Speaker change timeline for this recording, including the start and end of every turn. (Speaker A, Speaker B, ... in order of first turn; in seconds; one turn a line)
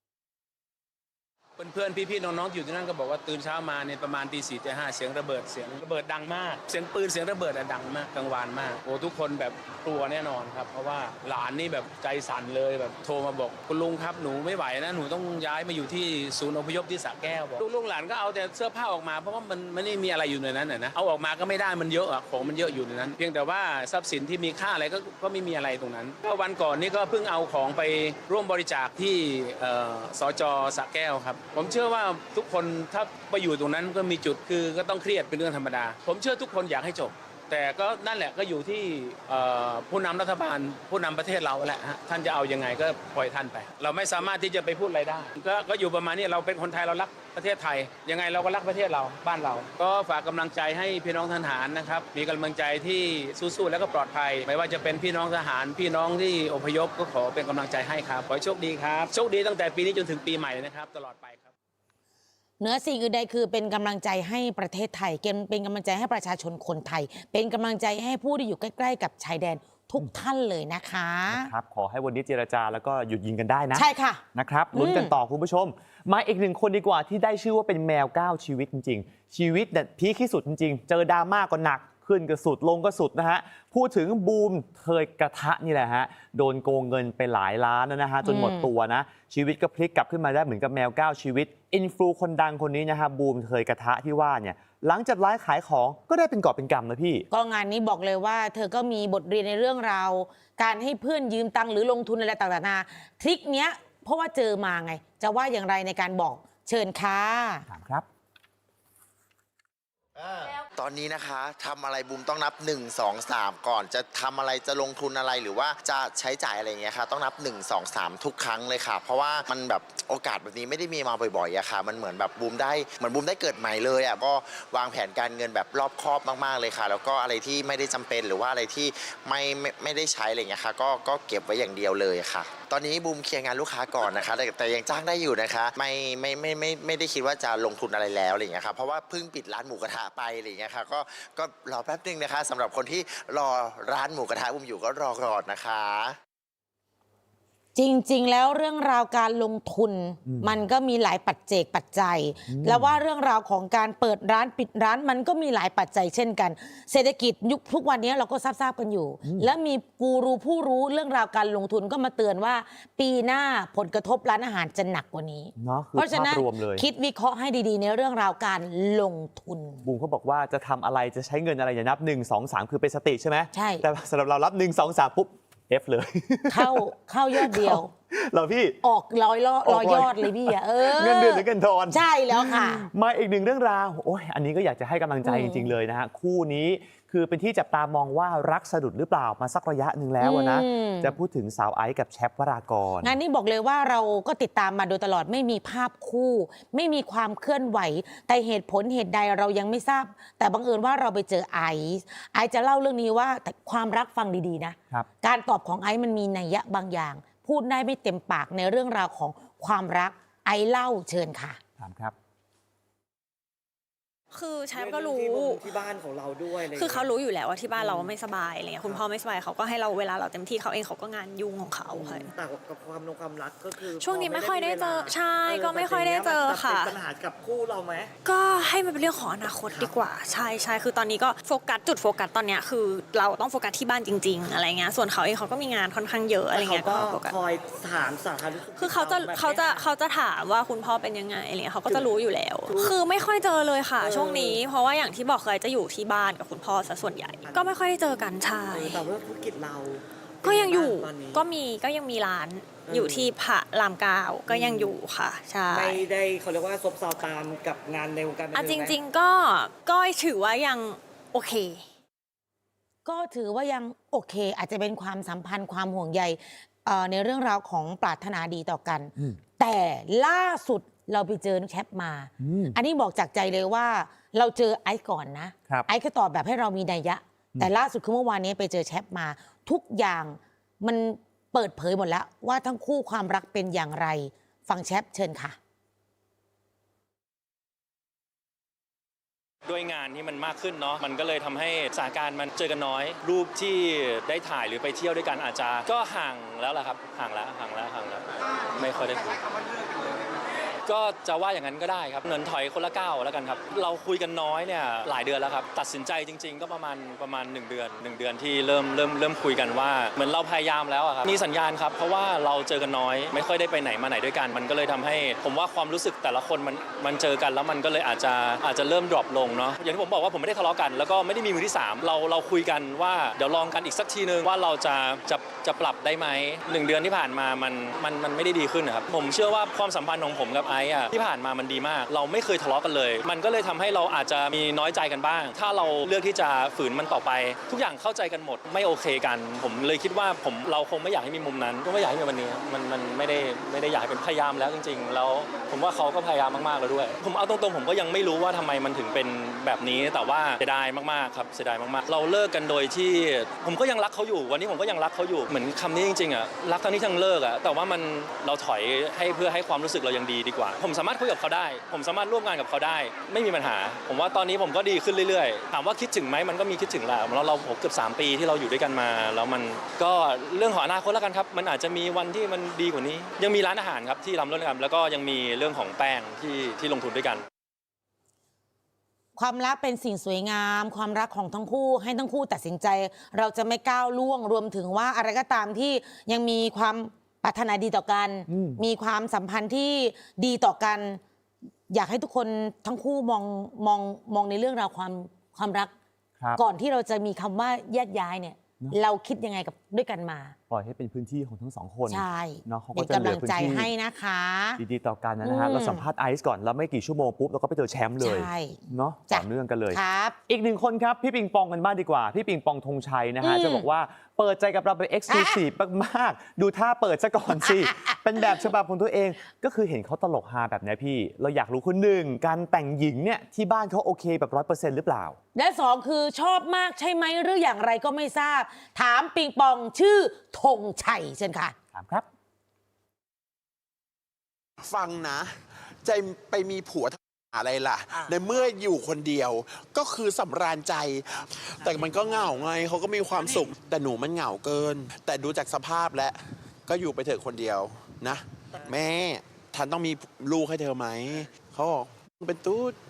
Speaker A: 1.6-61.5
Speaker B: 62.6-71.5
Speaker C: 71.3-97.3
Speaker B: 73.7-75.2
Speaker B: 88.2-88.7
Speaker B: 97.3-107.7
Speaker C: 107.7-108.0
Speaker D: 110.2-146.2
Speaker B: 147.7-169.8
Speaker C: 150.2-150.6
Speaker C: 152.5-153.0
Speaker C: 159.2-159.5
Speaker C: 165.6-166.8
Speaker C: 169.8-178.8
Speaker B: 173.5-173.8
Speaker B: 176.5-177.9
Speaker B: 178.8-182.9
Speaker C: 179.6-193.2
Speaker B: 185.2-185.7
Speaker B: 190.2-191.2
Speaker B: 193.0-211.6
Speaker C: 211.8-212.1
Speaker E: 214.3-215.8
Speaker F: 214.7-217.1
Speaker E: 216.6-222.3
Speaker F: 217.8-218.1
Speaker F: 221.9-228.1
Speaker E: 223.7-227.0
Speaker E: 228.2-237.4
Speaker F: 229.7-229.9
Speaker F: 236.5-239.9
Speaker E: 238.7-249.1
Speaker F: 241.8-242.1
Speaker F: 242.6-242.9
Speaker F: 244.0-244.6
Speaker F: 247.4-247.7
Speaker F: 248.7-251.4
Speaker E: 250.4-256.1
Speaker F: 252.8-253.3
Speaker F: 254.5-254.9
Speaker F: 255.7-259.0
Speaker E: 258.5-261.8
Speaker B: 263.0-285.6
Speaker C: 272.4-272.8
Speaker G: 289.7-299.4
Speaker G: 300.9-377.4
Speaker B: 379.4-391.2
Speaker C: 388.5-388.8
Speaker B: 391.9-395.9
Speaker B: 396.6-400.6
Speaker C: 400.7-403.9
Speaker B: 402.1-404.8
Speaker C: 404.8-425.4
Speaker B: 405.4-406.0
Speaker B: 408.2-410.4
Speaker B: 413.4-413.9
Speaker B: 415.3-415.6
Speaker B: 425.5-431.7
Speaker C: 431.9-432.3
Speaker H: 434.8-453.0